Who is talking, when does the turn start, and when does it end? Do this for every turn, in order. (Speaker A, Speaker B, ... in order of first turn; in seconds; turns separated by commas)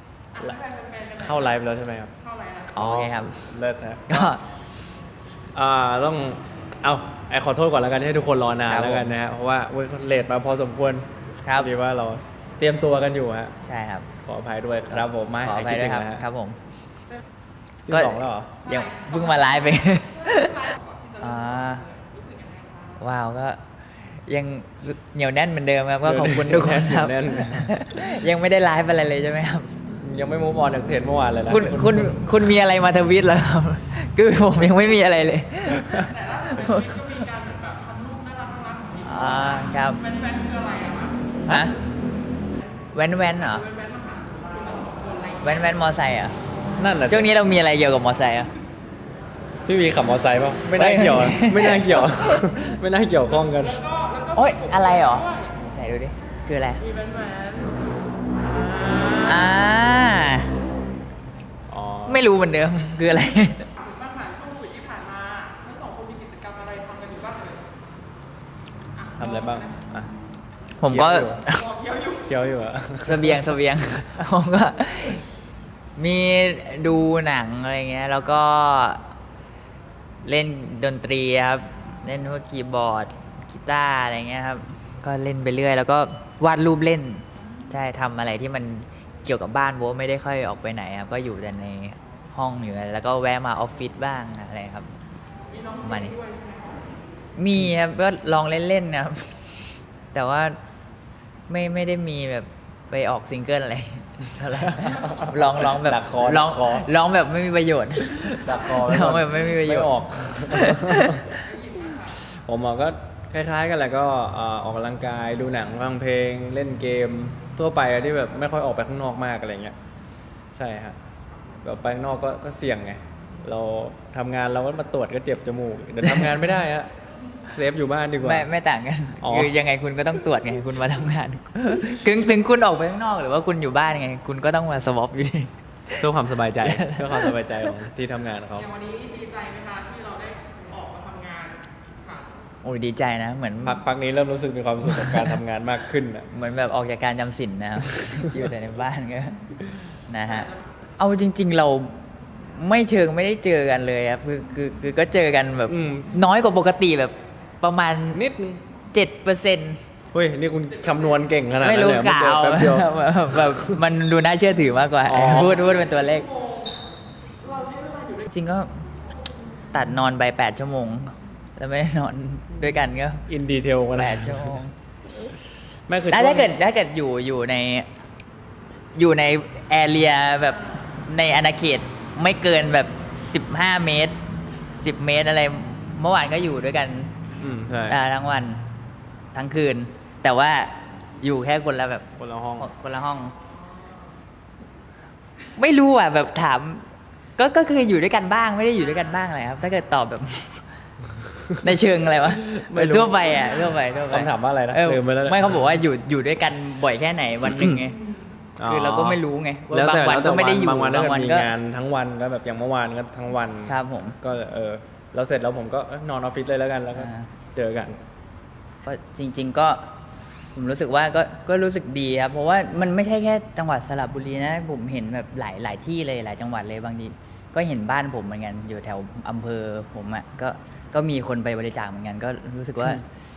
Speaker A: 0.4-2.1, Speaker B: 2.7-3.5, Speaker A: 2.8-4.3, Speaker B: 4.1-4.4, Speaker A: 5.5-13.5, Speaker B: 8.7-9.1, Speaker B: 11.4-11.7, Speaker B: 13.6-14.1, Speaker A: 14.2-16.2, Speaker B: 14.9-16.6, Speaker A: 17.9-18.6, Speaker B: 17.9-21.9, Speaker C: 20.3-21.2, Speaker C: 21.9-22.8, Speaker B: 23.0-29.8, Speaker A: 26.0-27.8, Speaker A: 29.9-32.1, Speaker B: 31.5-37.3, Speaker C: 36.4-39.0, Speaker B: 39.0-40.0, Speaker C: 40.1-41.1, Speaker B: 41.5-41.8, Speaker B: 42.9-43.7, Speaker C: 43.7-45.4, Speaker B: 45.4-46.4, Speaker A: 46.8-47.3, Speaker B: 47.1-48.5, Speaker A: 49.6-53.8, Speaker B: 50.8-52.4, Speaker B: 54.3-56.9, Speaker B: 59.1-60.5, Speaker A: 61.7-62.3, Speaker B: 62.1-63.7, Speaker C: 63.9-67.6, Speaker A: 69.2-70.1, Speaker B: 70.8-71.7, Speaker A: 70.8-71.5, Speaker A: 72.2-73.6, Speaker B: 73.0-75.3, Speaker B: 76.0-79.0, Speaker B: 80.2-94.9, Speaker B: 95.8-96.2, Speaker B: 97.4-100.5, Speaker B: 101.5-111.5, Speaker A: 104.9-106.9, Speaker A: 108.3-111.2, Speaker C: 111.5-112.0, Speaker A: 112.0-119.7, Speaker A: 120.5-121.0, Speaker A: 121.6-126.9, Speaker B: 126.0-126.4, Speaker A: 127.5-128.5, Speaker B: 128.2-136.0, Speaker A: 129.2-129.5, Speaker A: 136.0-138.7, Speaker B: 136.6-137.6, Speaker C: 138.7-142.2, Speaker B: 142.6-143.8, Speaker A: 143.6-146.3, Speaker B: 144.9-145.3, Speaker B: 146.3-149.4, Speaker B: 150.1-158.2, Speaker A: 155.7-156.1, Speaker A: 158.1-158.6, Speaker B: 158.9-159.8, Speaker A: 160.1-163.8, Speaker B: 161.6-166.3, Speaker A: 165.1-165.6, Speaker C: 167.5-168.1, Speaker B: 168.3-168.7, Speaker B: 169.7-173.2, Speaker A: 173.3-174.6, Speaker B: 173.9-174.7, Speaker A: 175.9-176.6, Speaker B: 176.1-177.9, Speaker B: 178.9-187.1, Speaker A: 187.4-188.0, Speaker B: 187.9-188.6, Speaker B: 189.3-193.3, Speaker A: 192.2-192.7, Speaker B: 195.6-196.8, Speaker B: 197.4-200.7, Speaker B: 201.6-208.0, Speaker A: 202.2-203.2, Speaker A: 204.1-205.6, Speaker A: 207.4-207.8, Speaker A: 208.6-218.0, Speaker B: 208.6-211.5, Speaker B: 213.7-214.2, Speaker B: 216.9-217.3, Speaker B: 218.8-219.9, Speaker B: 220.5-233.0